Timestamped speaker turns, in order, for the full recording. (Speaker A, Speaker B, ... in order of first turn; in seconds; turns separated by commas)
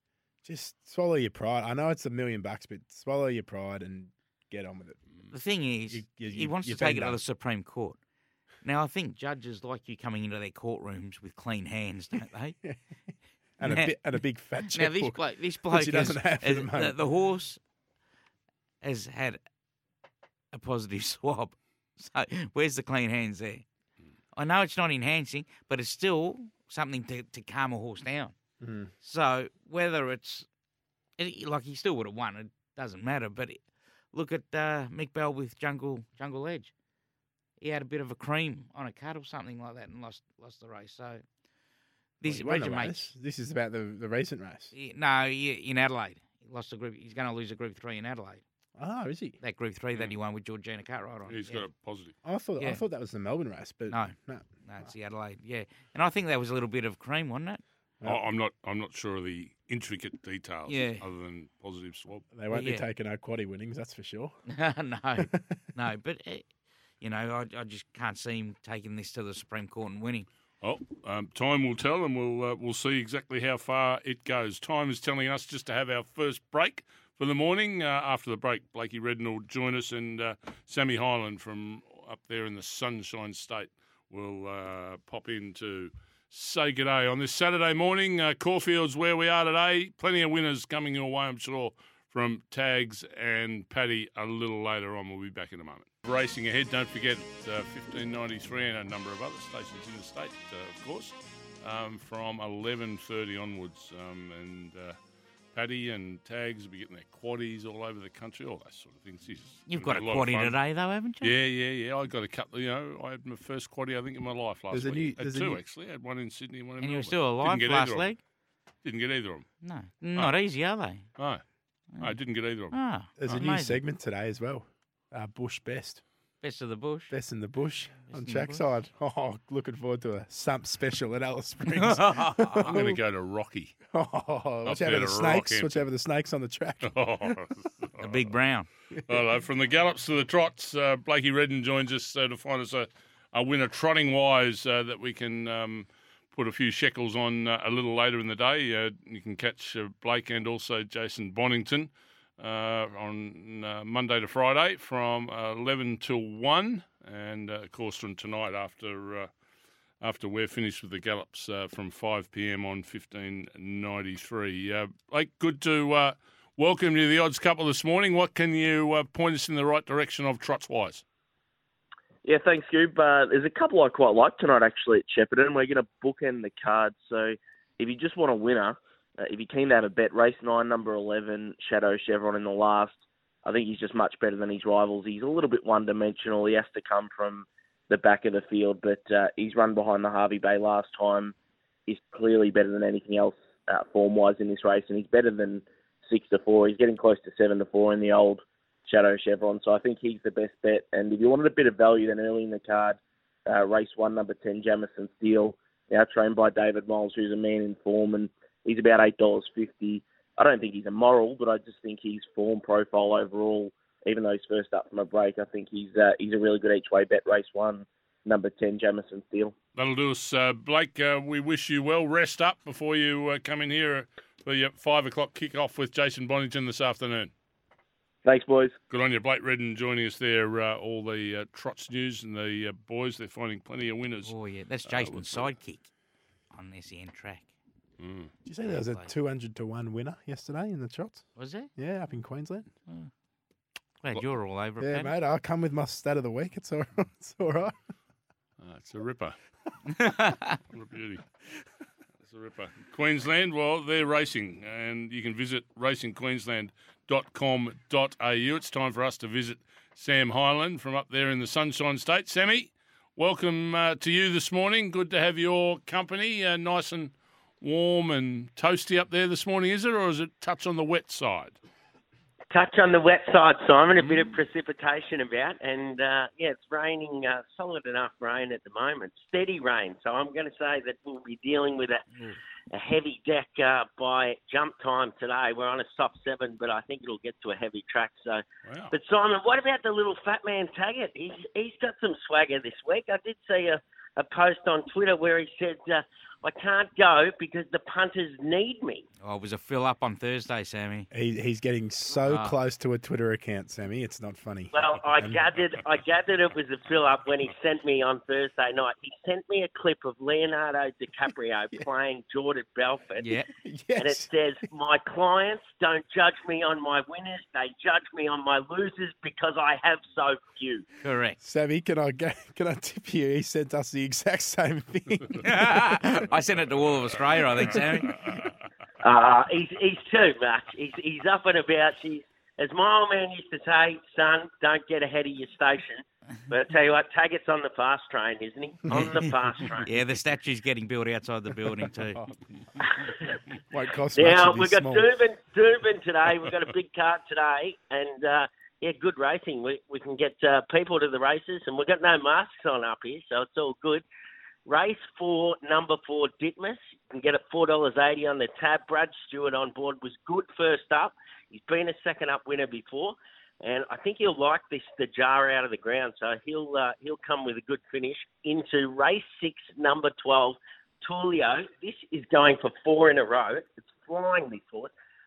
Speaker A: 0.4-5.0, Speaker B: 5.3-8.0, Speaker A: 5.9-7.2, Speaker B: 8.6-12.6, Speaker A: 13.6-17.0, Speaker B: 13.6-14.0, Speaker B: 14.6-17.6, Speaker B: 18.8-19.4, Speaker B: 20.5-23.6, Speaker B: 24.4-28.4, Speaker A: 28.6-28.9, Speaker B: 29.0-30.5, Speaker B: 31.2-33.6, Speaker B: 34.1-36.7, Speaker B: 37.6-41.2, Speaker B: 42.2-43.1, Speaker A: 42.2-44.7, Speaker B: 44.7-48.4, Speaker A: 48.8-49.4, Speaker B: 49.4-51.6, Speaker C: 51.3-52.1, Speaker A: 52.2-54.9, Speaker B: 53.9-57.6, Speaker C: 58.0-62.3, Speaker B: 60.7-61.0, Speaker A: 62.3-64.4, Speaker B: 62.5-62.9, Speaker B: 64.5-66.5, Speaker A: 65.2-65.5, Speaker B: 67.0-70.3, Speaker C: 70.6-105.0, Speaker C: 105.5-110.6, Speaker B: 109.7-111.3, Speaker C: 111.2-118.1, Speaker A: 114.7-115.6, Speaker B: 116.8-118.2, Speaker C: 118.8-119.5, Speaker B: 119.6-121.0, Speaker C: 121.2-121.4, Speaker C: 122.0-122.8, Speaker B: 122.7-123.8, Speaker A: 123.2-126.0, Speaker B: 126.4-127.1, Speaker A: 127.1-133.0, Speaker B: 128.1-128.6, Speaker B: 131.7-132.7, Speaker C: 132.6-133.8, Speaker A: 133.9-137.3, Speaker C: 134.7-135.8, Speaker C: 136.8-138.3, Speaker B: 138.0-138.7, Speaker C: 139.1-159.3, Speaker C: 160.0-171.0, Speaker D: 172.2-191.3, Speaker D: 191.9-219.6, Speaker C: 219.8-227.3, Speaker D: 228.2-228.8, Speaker C: 228.9-234.3, Speaker B: 234.2-235.9, Speaker C: 234.9-235.5, Speaker B: 236.5-237.5, Speaker C: 238.0-238.3, Speaker A: 238.5-242.7, Speaker B: 238.7-239.1, Speaker B: 241.4-241.7, Speaker B: 244.0-245.1, Speaker A: 244.8-247.8, Speaker C: 248.6-249.4, Speaker B: 249.9-250.6, Speaker C: 250.7-251.2, Speaker C: 252.2-271.6, Speaker E: 272.5-282.1, Speaker E: 282.7-299.1, Speaker C: 288.6-288.9, Speaker B: 299.2-301.1, Speaker A: 301.1-305.4, Speaker B: 302.3-302.6, Speaker E: 304.7-313.3, Speaker B: 313.2-313.5, Speaker A: 313.6-314.3, Speaker E: 314.0-320.9, Speaker B: 321.0-321.4, Speaker A: 321.4-325.7, Speaker B: 325.4-328.2, Speaker C: 328.1-328.4, Speaker E: 329.0-339.9, Speaker B: 338.9-339.2, Speaker B: 339.8-342.2, Speaker E: 343.0-343.3, Speaker A: 343.7-345.1, Speaker E: 344.1-354.0, Speaker E: 354.7-374.9